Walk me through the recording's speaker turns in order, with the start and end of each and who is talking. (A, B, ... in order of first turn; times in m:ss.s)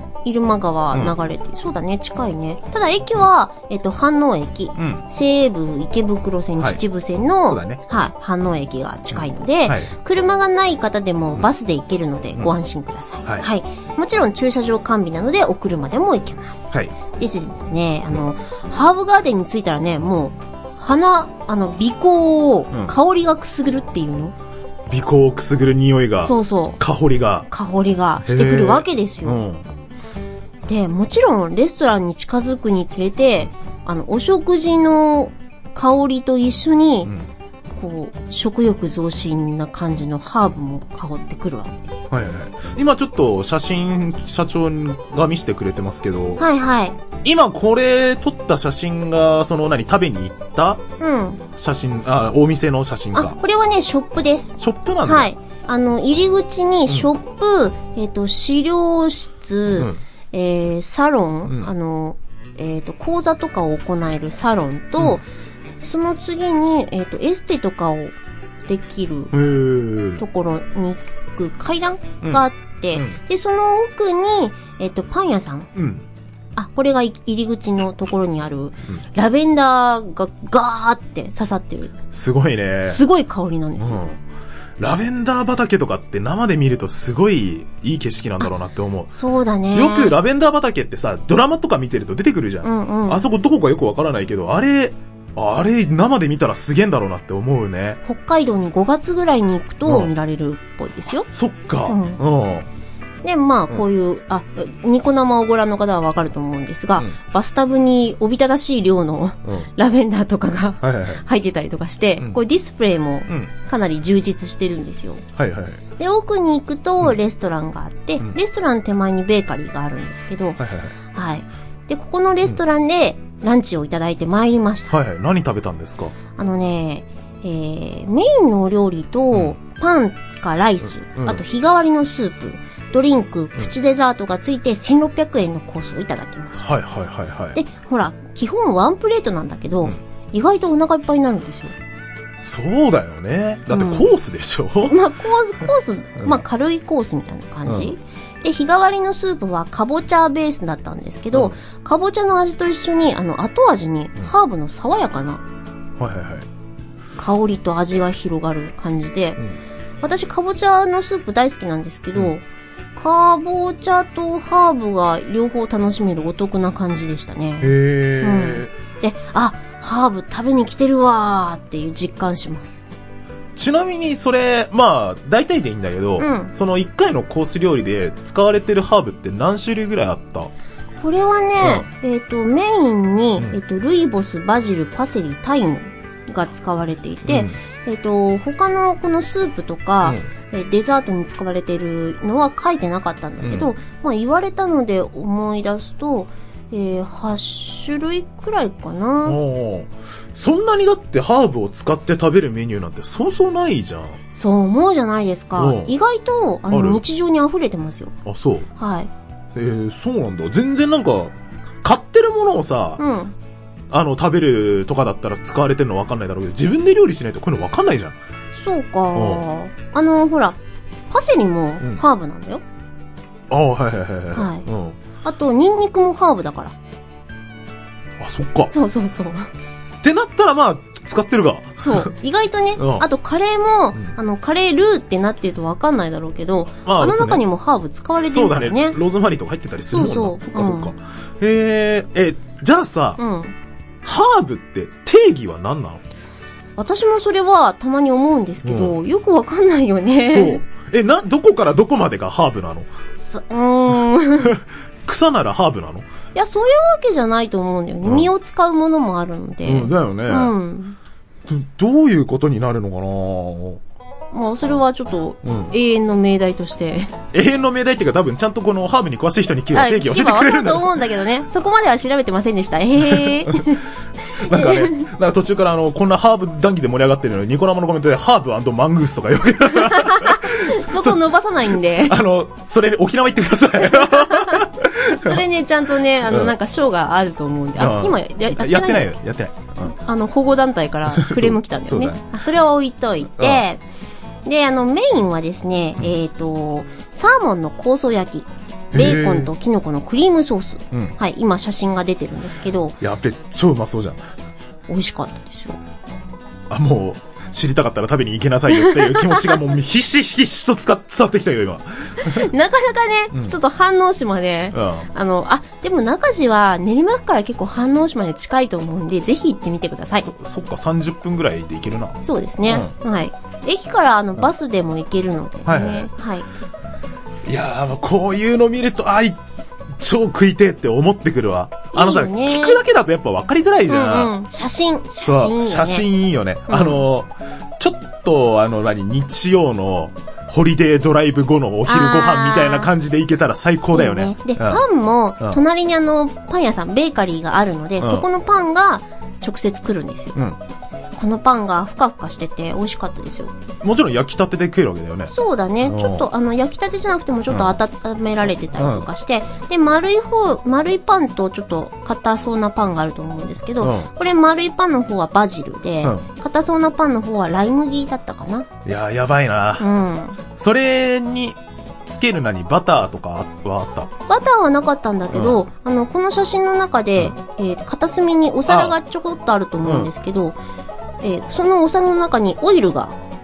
0:00.2-0:24.3 A
0:04.7-0:05.0 B
0:07.4-0:07.8 B
0:09.1-0:09.9 B
0:13.2-0:13.5 B
0:24.9-0:27.5 B
0:26.2-0:26.8 A
0:27.5-0:29.4 A
0:28.2-0:29.6 B
0:30.7-0:37.1 A
0:37.0-0:37.3 B
0:37.8-0:41.9 A
0:42.1-0:46.4 B
0:46.4-0:47.0 A
0:47.2-0:50.8 B
0:51.0-0:51.4 A
0:51.6-0:53.4 B
0:53.1-1:05.2 A
0:54.6-0:55.3 B
0:59.8-1:00.0 B
1:05.8-1:08.1 A
1:08.7-1:09.3 A
1:09.3-1:10.2 B
1:10.2-1:15.7 A
1:12.2-1:13.2 B
1:15.7-1:16.0 B
1:16.6-1:22.0 A
1:22.1-1:23.0 B
1:22.8-1:24.0 A
1:23.8-1:24.2 B
1:24.8-1:29.1 B
1:29.1-1:30.2 A
1:29.7-1:38.0 B
1:32.6-1:33.2 A
1:38.0-1:41.3 A
1:39.8-1:40.1 B
1:41.3-1:42.7 B
1:41.8-1:42.2 A
1:43.2-1:55.2 A
1:50.8-1:51.2 B
1:55.4-1:55.8 B
1:56.0-2:00.6 A
2:00.6-2:00.9 B
2:01.1-2:05.0 A
2:04.9-2:06.1 B
2:06.4-2:16.7 A
2:11.1-2:11.4 B
2:16.6-2:17.6 B
2:17.5-2:21.7 A
2:22.4-2:25.0 B
2:23.7-2:24.1 A
2:24.8-2:35.4 A
2:31.3-2:31.6 B
2:36.0-2:36.5 B
2:37.2-2:39.4 A
2:40.0-2:42.4 A
2:42.9-2:52.8 A
2:47.6-2:48.7 B
2:53.6-3:00.5 B
2:56.2-2:56.5 A
3:01.0-3:19.4 A
3:01.6-3:01.8 B
3:07.3-3:07.5 B
3:10.0-3:10.3 B
3:13.4-3:13.7 B
3:19.2-3:24.2 B
3:24.3-3:28.1 A
3:25.6-3:25.9 B
3:26.7-3:27.0 B
3:28.2-3:28.7 B
3:28.8-3:29.1 A
3:29.5-3:33.0 B
3:33.0-3:33.3 A
3:33.9-3:38.2 B
3:38.5-3:40.6 A
3:39.1-3:39.4 B
3:41.1-3:42.6 A
3:43.5-3:45.0 B
3:44.3-3:44.7 A
3:45.2-3:46.7 A
3:48.2-3:48.7 B
3:48.7-3:49.5 A
3:50.0-3:52.1 B
3:51.8-3:59.0 A
3:52.8-3:53.1 B
3:56.8-3:57.4 B
3:58.3-4:03.2 B
3:59.9-4:00.9 A
4:03.2-4:03.5 A
4:04.0-4:06.0 B
4:06.8-4:10.6 A
4:08.6-4:09.0 B
4:10.2-4:12.9 B
4:13.2-4:14.6 A
4:14.4-4:16.0 B
4:16.3-4:21.0 A
4:18.0-4:18.3 B
4:19.6-4:20.5 B
4:21.5-4:23.8 B
4:24.3-4:27.1 A
4:25.4-4:25.7 B
4:27.3-4:31.0 B
4:29.7-4:35.0 A
4:33.0-4:33.8 B
4:34.4-4:41.2 B
4:39.7-4:42.2 A
4:42.0-4:45.4 B
4:43.8-4:49.1 A
4:46.3-4:46.5 B
4:47.8-4:49.9 B
4:49.8-4:53.8 A
4:51.1-4:52.2 B
4:53.4-4:53.6 B
4:54.4-5:03.0 A
4:58.9-4:59.5 B
5:03.0-5:04.2 B
5:04.9-5:05.8 A
5:06.7-5:12.5 B
5:08.7-5:09.6 A
5:12.2-5:20.3 A
5:14.7-5:15.1 B
5:20.2-5:22.9 B
5:22.2-5:26.4 A
5:25.6-5:26.1 B
5:27.5-5:29.4 B
5:29.9-5:34.3 B
5:31.9-5:32.8 A
5:33.9-5:36.1 A
5:35.2-5:44.8 B
5:36.7-5:37.0 A
5:41.8-5:42.9 A
5:43.9-5:50.4 A
5:48.0-5:48.3 B
5:51.2-5:53.5 A
5:53.8-5:56.3 B
5:55.3-6:08.7 A
5:58.8-5:59.1 B
6:03.8-6:04.1 B
6:08.8-6:09.9 B
6:09.8-6:10.4 A
6:10.6-6:14.1 B
6:14.3-6:20.6 A
6:15.3-6:15.6 B
6:18.7-6:19.0 B
6:19.8-6:20.1 B
6:21.2-6:23.1 A